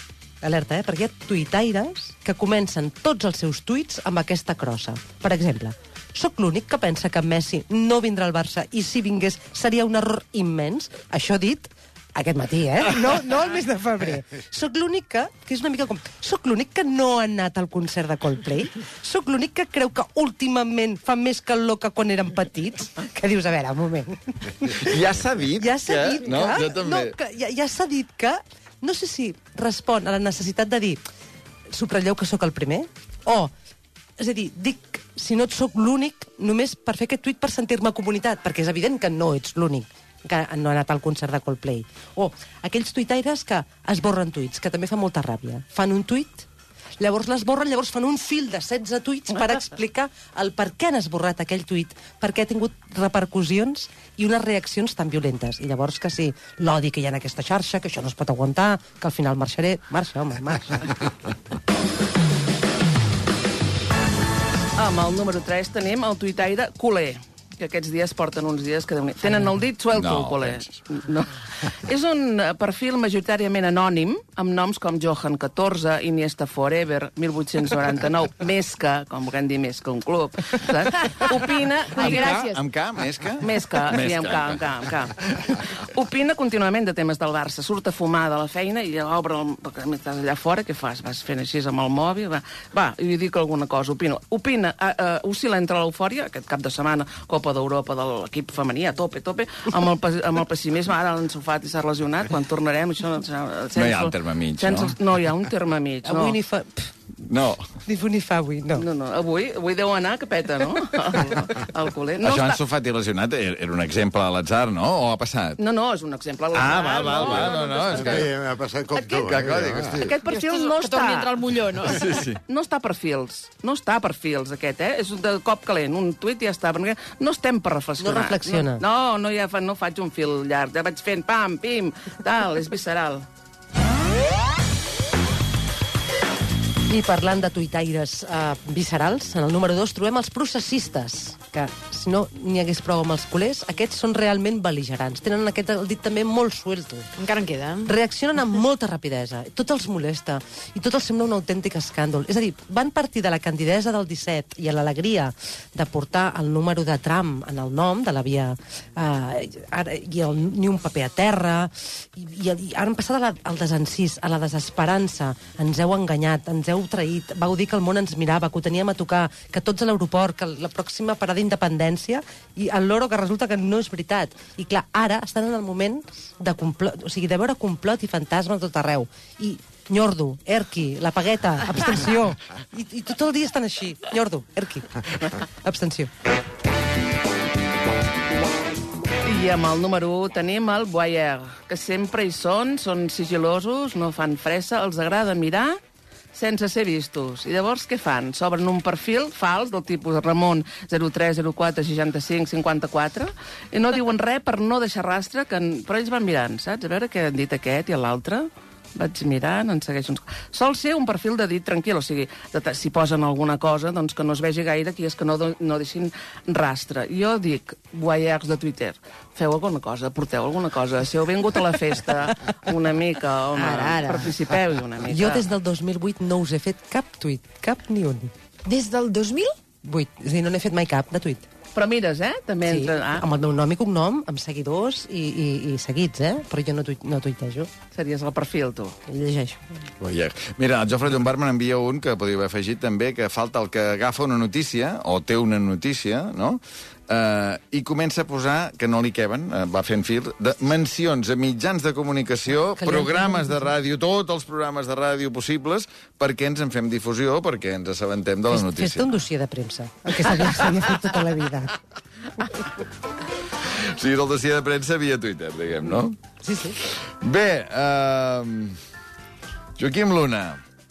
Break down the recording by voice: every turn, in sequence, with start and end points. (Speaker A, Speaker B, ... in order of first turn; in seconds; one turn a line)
Speaker A: 0.4-25.0
Speaker B: 24.8-27.1
Speaker A: 25.6-31.0
Speaker A: 31.7-33.5
Speaker A: 34.2-46.5
Speaker A: 47.0-61.1
Speaker C: 64.8-82.5
Speaker B: 69.9-70.8
Speaker D: 81.9-82.6
Speaker B: 82.0-85.1
Speaker C: 83.4-106.4
Speaker B: 103.8-105.0
Speaker A: 106.0-106.9
Speaker B: 107.3-107.7
Speaker A: 107.8-108.9
Speaker C: 108.8-112.6
Speaker B: 112.2-115.6
Speaker C: 115.6-118.3
Speaker B: 116.5-118.2
Speaker E: 117.9-120.1
Speaker C: 118.9-119.3
Speaker B: 119.2-120.2
Speaker C: 120.0-121.3
Speaker D: 120.2-122.1
Speaker B: 121.8-122.4
Speaker C: 122.5-133.2
Speaker A: 128.0-128.8
Speaker A: 136.9-147.1
Speaker D: 147.2-147.9
Speaker A: 147.9-186.1
Speaker C: 189.2-195.8
Speaker C: 196.3-225.5
Speaker D: 223.6-224.4
Speaker A: 225.1-228.3
Speaker D: 228.7-229.5
Speaker A: 229.8-231.4
Speaker C: 231.8-233.2
Speaker A: 232.6-237.7
Speaker C: 237.9-238.9
Speaker A: 239.1-239.6
Speaker B: 240.0-259.1
Speaker A: 252.8-253.6
Speaker A: 258.5-261.8
Speaker B: 263.7-266.2
Speaker A: 266.4-266.8
Speaker B: 266.8-268.8
Speaker B: 269.8-270.6